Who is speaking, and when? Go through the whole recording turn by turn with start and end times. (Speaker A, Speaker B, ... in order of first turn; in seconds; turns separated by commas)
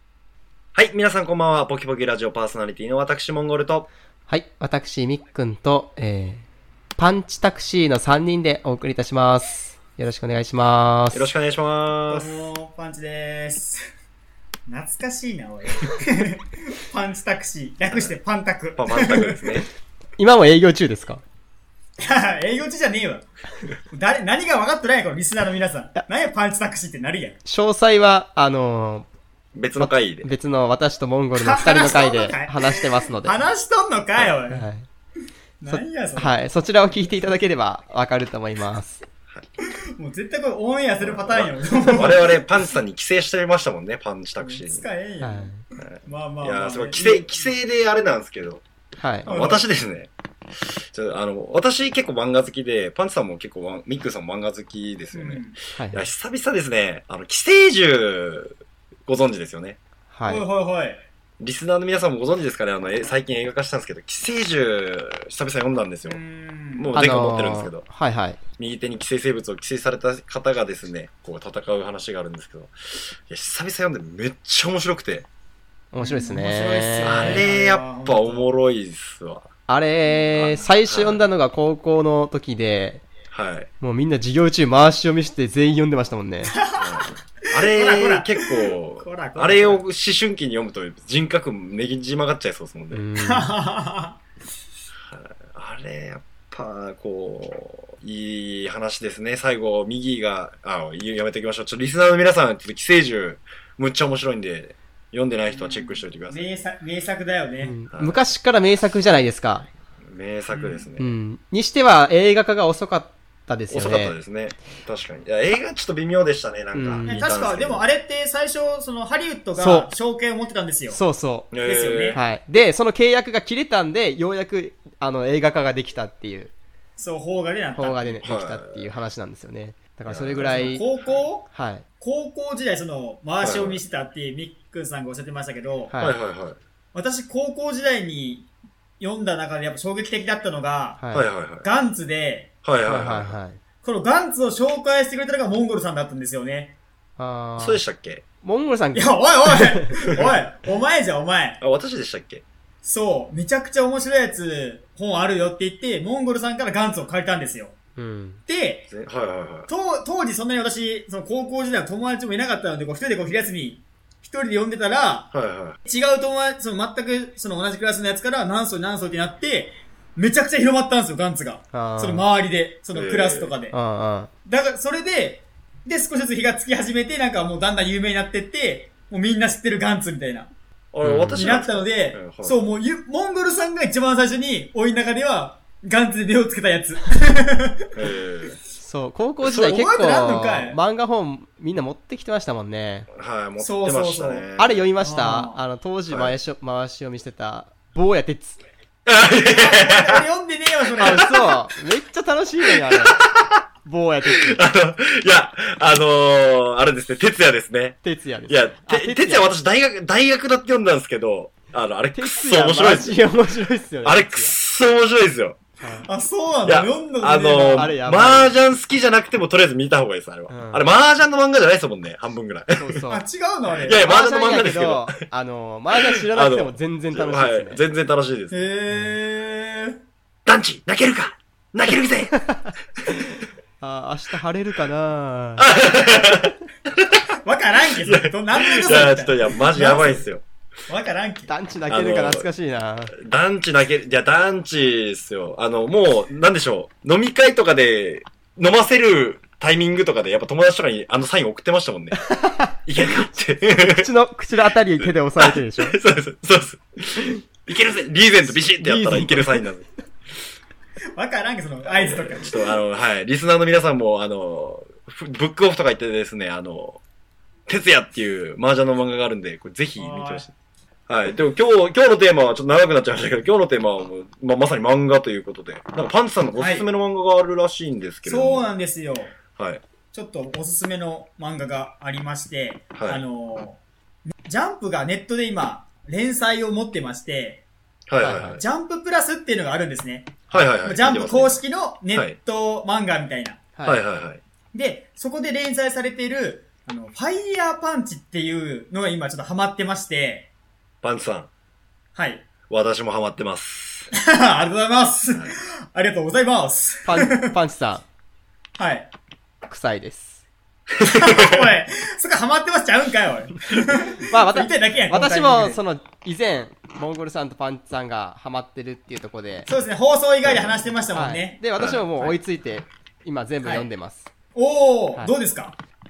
Speaker A: 0.7-3.9, Speaker B: 4.3-6.4, Speaker B: 7.0-11.3, Speaker A: 11.1-12.5, Speaker C: 12.1-13.8, Speaker C: 14.7-19.6, Speaker A: 18.8-19.7, Speaker B: 20.2-21.2, Speaker C: 22.0-23.2, Speaker C: 23.9-27.4, Speaker B: 27.4-29.1, Speaker A: 29.5-30.3, Speaker B: 29.8-33.4, Speaker C: 31.4-34.7, Speaker B: 34.5-34.9, Speaker C: 35.6-36.3, Speaker B: 35.7-39.0, Speaker C: 40.0-42.5, Speaker A: 41.0-44.8, Speaker C: 44.4-47.5, Speaker B: 45.2-45.6, Speaker A: 45.8-48.6, Speaker B: 49.0-49.3, Speaker A: 49.2-50.1, Speaker C: 49.3-49.6, Speaker A: 50.6-58.5, Speaker C: 55.1-55.5, Speaker B: 55.8-56.0, Speaker A: 59.0-59.8, Speaker B: 60.1-60.4, Speaker C: 60.3-61.0, Speaker A: 61.4-66.2, Speaker C: 66.0-66.9, Speaker A: 66.8-67.8, Speaker B: 66.9-68.4, Speaker A: 68.6-75.2, Speaker B: 75.9-77.4, Speaker C: 76.0-78.5, Speaker A: 77.0-79.5, Speaker B: 79.7-83.1, Speaker A: 80.3-81.2, Speaker A: 83.3-83.7, Speaker B: 83.8-86.5, Speaker C: 86.5-89.8, Speaker A: 86.7-93.0, Speaker B: 92.9-93.5, Speaker C: 93.2-94.2, Speaker A: 95.0-106.4, Speaker C: 105.5-107.7, Speaker B: 107.6-109.7, Speaker A: 107.9-108.2, Speaker A: 110.0-111.1, Speaker C: 110.5-110.8, Speaker B: 111.0-114.1, Speaker A: 113.7-117.8, Speaker B: 116.7-117.3, Speaker C: 117.1-121.0, Speaker B: 119.6-119.9, Speaker B: 120.9-121.5, Speaker A: 121.5-122.2, Speaker C: 121.5-122.2, Speaker B: 122.1-126.5, Speaker C: 127.0-128.2, Speaker B: 127.8-130.9, Speaker A: 128.2-128.9, Speaker A: 130.1-130.5, Speaker C: 130.4-135.9, Speaker B: 131.5-131.8, Speaker A: 133.4-133.8, Speaker B: 135.9-136.2, Speaker A: 136.0-136.6, Speaker C: 136.9-138.5, Speaker C: 139.0-141.0, Speaker B: 141.0-141.3, Speaker A: 141.1-141.7, Speaker C: 141.6-142.5, Speaker A: 142.6-143.4, Speaker B: 142.8-143.6, Speaker C: 143.8-146.8, Speaker B: 147.2-147.8, Speaker A: 147.6-148.2, Speaker B: 148.4-149.9, Speaker C: 148.9-151.6, Speaker A: 151.6-152.4, Speaker C: 152.8-157.8, Speaker B: 157.9-158.4, Speaker C: 158.5-158.9, Speaker A: 158.9-159.7, Speaker C: 159.7-165.3, Speaker A: 165.3-165.8, Speaker C: 165.8-173.7, Speaker B: 171.7-172.2, Speaker A: 172.9-173.5, Speaker B: 173.7-174.3, Speaker C: 174.4-180.5, Speaker A: 180.9-182.6, Speaker B: 181.0-181.4, Speaker C: 181.3-188.1, Speaker A: 187.9-188.6, Speaker B: 188.8-193.1, Speaker C: 189.4-190.8, Speaker A: 193.1-194.9, Speaker C: 193.6-194.4, Speaker B: 194.6-198.6, Speaker C: 195.0-195.6, Speaker A: 196.1-196.3, Speaker A: 199.1-200.2, Speaker C: 199.3-201.4, Speaker A: 201.0-201.3, Speaker B: 201.0-203.3, Speaker A: 202.9-203.6, Speaker B: 203.8-204.6, Speaker A: 204.4-213.2, Speaker B: 208.0-209.5, Speaker B: 212.1-214.6, Speaker A: 214.0-215.6, Speaker B: 215.8-216.1, Speaker C: 216.0-217.9, Speaker A: 216.6-223.0, Speaker B: 217.7-218.6, Speaker B: 220.5-220.8, Speaker B: 222.7-223.2, Speaker C: 223.1-224.0, Speaker A: 223.8-225.1, Speaker B: 223.9-227.8, Speaker A: 225.9-228.5, Speaker C: 228.5-230.0, Speaker A: 230.4-232.3, Speaker B: 232.3-235.7, Speaker A: 235.6-237.2, Speaker C: 237.4-240.2, Speaker A: 238.0-240.4, Speaker C: 240.9-241.5, Speaker B: 241.5-243.1, Speaker A: 241.9-242.5, Speaker A: 243.1-252.2, Speaker B: 252.2-252.7, Speaker A: 252.8-254.1, Speaker B: 253.6-256.0, Speaker A: 255.0-259.8, Speaker B: 258.8-259.7, Speaker C: 261.1-262.6, Speaker A: 261.9-267.0, Speaker A: 267.7-270.5, Speaker C: 270.0-270.5, Speaker A: 271.1-278.6, Speaker C: 276.6-276.9, Speaker C: 278.2-279.4, Speaker A: 279.5-279.8, Speaker C: 280.1-283.8, Speaker A: 282.9-283.2, Speaker C: 284.3-287.6, Speaker A: 288.1-288.6, Speaker B: 288.2-288.6, Speaker C: 288.6-293.6, Speaker A: 290.5-292.4, Speaker B: 293.8-294.0, Speaker A: 293.8-294.4, Speaker C: 294.7-300.5, Speaker A: 301.0-301.5, Speaker C: 302.1-302.4, Speaker A: 302.7-304.1, Speaker C: 304.1-307.5, Speaker B: 307.1-308.0, Speaker C: 308.8-309.1, Speaker B: 309.7-310.4, Speaker A: 311.0-311.6, Speaker C: 311.0-315.8, Speaker B: 314.3-319.7, Speaker C: 319.7-321.6, Speaker A: 320.4-320.8, Speaker B: 321.1-324.3, Speaker A: 321.8-322.0, Speaker C: 323.6-323.9, Speaker C: 324.5-325.8